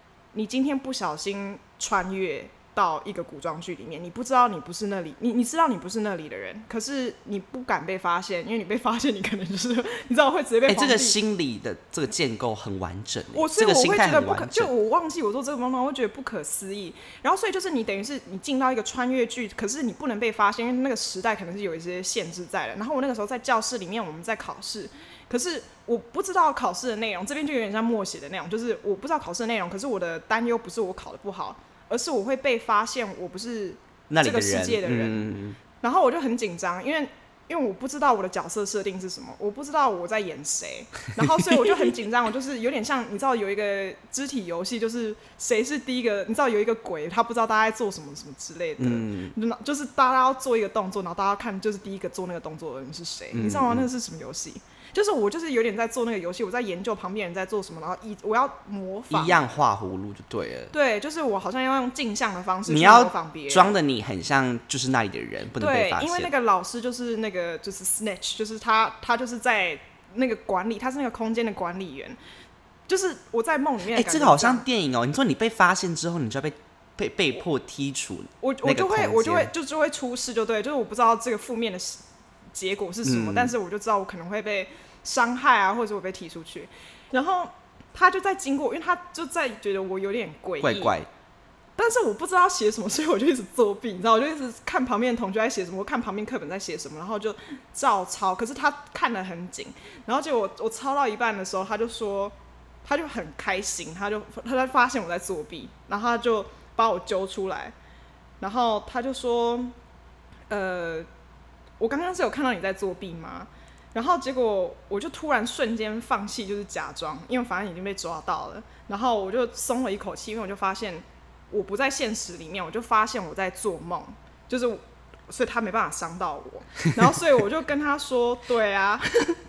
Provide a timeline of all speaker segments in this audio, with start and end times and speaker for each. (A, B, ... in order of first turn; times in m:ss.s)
0:00.3-0:11.2 A
0:10.7-0:14.7 B
0:13.3-0:59.4 A
0:34.1-0:35.6 B
0:41.4-0:41.9 B
0:48.8-0:49.3 B
0:53.3-0:53.9 B
0:59.1-1:00.7 B
1:00.7-1:03.7 A
1:02.7-1:06.3 B
1:05.6-1:12.2 A
1:12.9-1:14.6 A
1:13.9-1:19.5 B
1:18.4-1:22.0 A
1:22.5-1:30.9 A
1:23.0-1:23.5 B
1:30.6-1:31.1 B
1:31.8-1:47.7 A
1:48.4-1:49.8 A
1:50.5-1:51.1 A
1:51.8-2:09.3 A